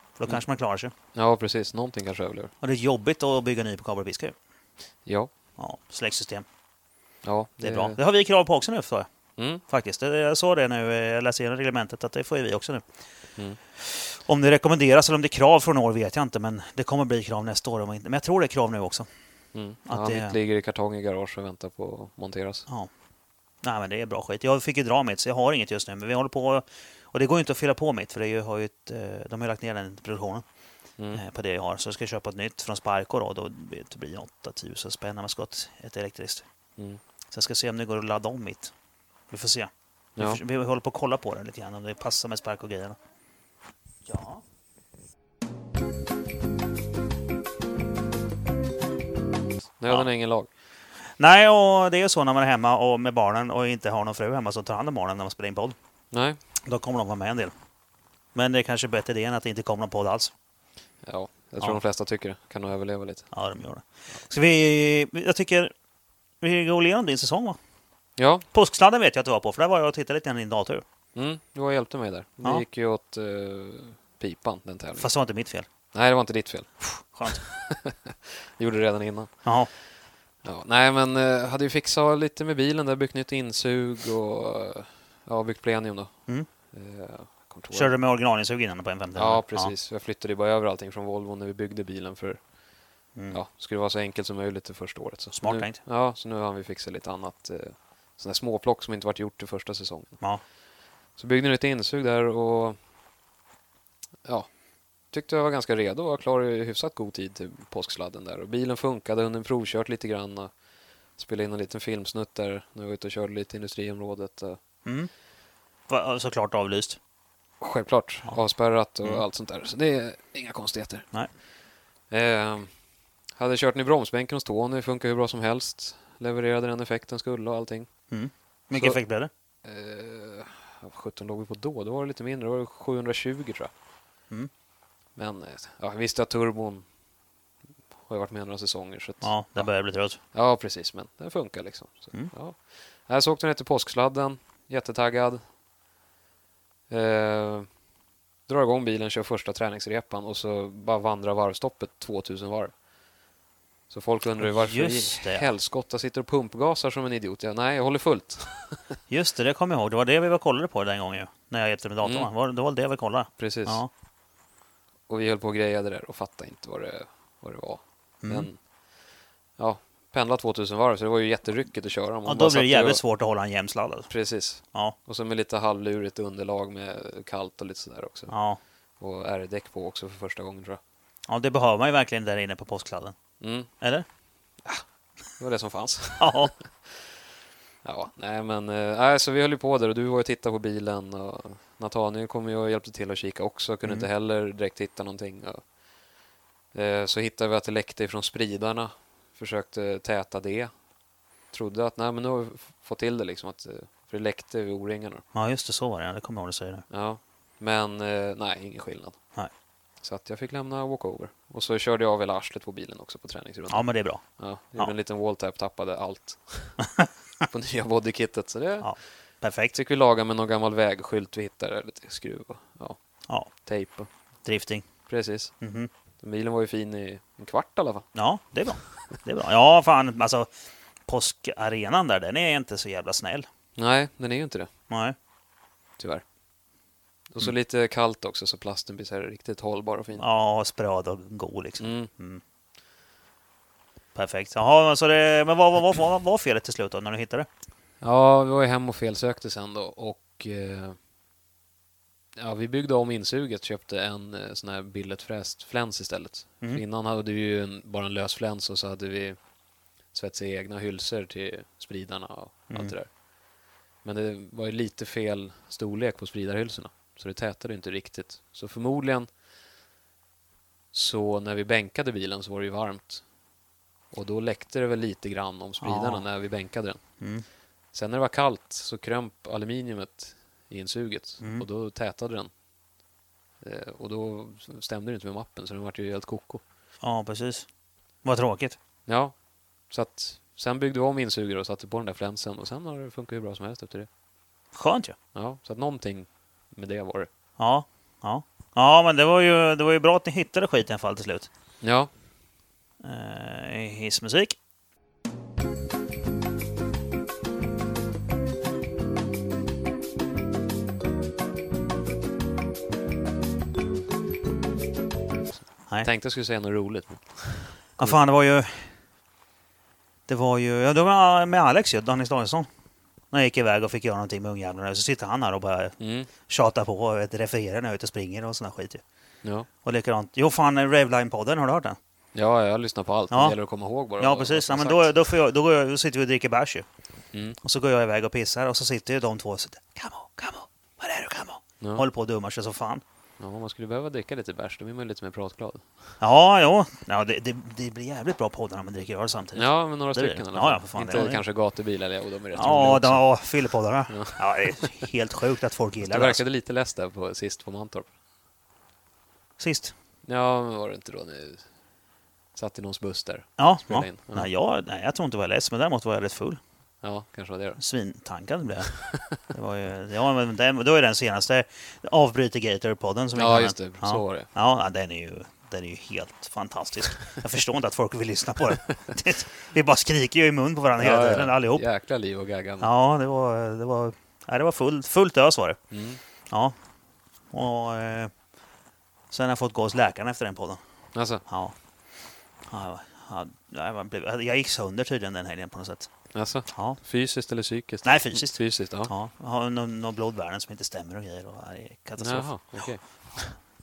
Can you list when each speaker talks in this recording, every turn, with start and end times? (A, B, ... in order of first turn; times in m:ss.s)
0:00.2-0:00.9 A
0:01.1-0:02.5 B
0:02.6-0:04.3 A
0:05.0-0:05.3 B
0:05.6-0:06.4 A
0:07.2-0:08.0 B
0:07.6-0:09.1 A
0:09.4-0:09.6 B
0:09.7-0:12.8 A
0:13.8-0:19.1 A
0:19.5-0:22.6 B
0:19.8-0:20.3 A
0:23.6-0:30.4 A
0:31.1-0:36.4 A
0:37.3-0:38.7 A
0:39.3-0:43.0 A
0:44.0-0:44.4 A
0:49.8-0:50.5 B
0:51.2-0:55.8 A
0:56.1-0:56.4 B
0:56.6-0:57.5 A
0:58.3-1:00.3 A
1:01.0-1:03.3 B
1:03.3-1:05.7 A
1:06.4-1:07.6 A
1:08.2-1:08.4 B
1:08.5-1:10.8 A
1:11.1-1:15.1 B
1:15.0-1:15.7 A
1:15.9-1:19.4 B
1:16.8-1:17.4 A
1:19.4-1:19.7 A
1:20.4-1:26.1 B
1:26.7-1:27.9 B
1:27.7-1:29.7 A
1:29.2-1:32.4 B
1:33.1-1:33.4 A
1:33.3-1:40.2 B
1:35.3-1:35.8 A
1:41.2-1:42.8 B
1:44.2-1:44.5 B
1:45.1-1:50.5 B
1:51.2-1:54.6 B
1:54.8-1:55.1 A
1:55.9-1:57.0 A
1:57.6-2:01.1 B
2:02.1-2:02.7 B
2:03.3-2:07.9 B
2:08.1-2:09.3 A
2:09.6-2:13.7 B
2:15.2-2:16.8 B
2:18.0-2:19.7 B
2:19.2-2:20.2 A
2:20.3-2:25.4 B
2:26.9-2:27.7 B
2:28.5-2:32.7 B
2:33.9-2:39.0 B
2:34.4-2:35.5 A
2:39.1-2:43.9 A
2:42.0-2:42.3 B
2:43.4-2:43.8 B
2:45.1-2:48.6 B
2:48.2-2:48.5 A
2:49.6-2:53.0 B
2:52.2-2:54.1 A
2:54.1-2:58.3 B
2:58.3-2:58.6 A
2:59.0-3:00.8 B
3:01.3-3:03.2 A
3:03.4-3:03.7 B
3:03.8-3:04.0 A
3:05.4-3:07.2 B
3:06.2-3:06.5 A
3:07.8-3:15.6 B
3:16.7-3:20.7 B
3:21.5-3:25.2 B
3:25.3-3:26.9 A
3:26.9-3:29.2 B
3:30.0-3:36.8 B
3:33.7-3:34.2 A
3:36.8-3:37.1 A
3:37.5-3:38.9 B
3:38.8-3:39.7 A
3:39.7-3:43.0 B
3:43.5-3:44.1 B
3:44.4-3:44.9 A
3:45.1-3:45.5 B
3:45.6-3:45.9 A
3:46.2-3:48.0 B
3:48.1-3:50.5 A
3:51.1-3:53.4 A
3:53.8-3:54.7 B
3:54.9-3:55.1 A
3:56.0-3:56.2 B
3:57.3-4:00.2 B
4:00.2-4:02.4 A
4:01.8-4:02.1 B
4:04.1-4:07.5 A
4:08.0-4:11.0 B
4:12.4-4:19.4 B
4:20.1-4:23.1 B
4:24.0-4:29.3 B
4:30.9-4:33.2 B
4:34.1-4:37.0 B
4:35.8-4:36.2 A
4:37.2-4:37.4 A
4:37.9-4:42.5 B
4:41.4-4:41.6 A
4:43.6-4:46.6 B
4:47.0-4:47.7 A
4:48.2-4:48.8 A
4:49.1-4:49.3 B
4:49.9-4:54.1 B
4:54.7-4:55.2 A
4:55.3-4:57.3 B
4:57.6-5:01.5 A
5:01.8-5:02.1 B
5:03.0-5:04.6 A
5:15.8-5:18.2 B
5:18.0-5:18.9 A
5:20.3-5:22.7 A
5:23.3-5:29.0 A
5:26.0-5:26.3 B
5:29.8-5:32.0 A
5:32.3-5:35.2 B
5:33.3-5:33.6 A
5:34.2-5:36.8 A
5:37.6-5:43.0 A
5:43.4-5:46.1 B
5:46.2-5:51.4 A
5:49.6-5:53.3 B
5:52.5-5:56.4 A
5:54.1-5:54.9 B
5:56.0-5:58.1 B
5:59.6-5:59.9 A
6:00.2-6:01.6 B
6:02.5-6:04.5 B
6:03.6-6:06.6 A
6:07.0-6:07.8 B
6:07.8-6:21.8 A
6:09.1-6:09.4 B
6:13.4-6:14.5 B
6:21.0-6:22.9 B
6:22.8-6:25.8 A
6:25.9-6:26.2 B
6:26.5-6:26.7 A
6:27.5-6:28.3 A
6:29.3-6:30.8 A
6:31.1-6:31.4 B
6:31.4-6:31.8 A
6:32.7-6:36.1 A
6:36.3-6:39.1 B
6:36.7-6:37.0 A
6:38.0-6:42.9 A
6:42.2-6:43.5 B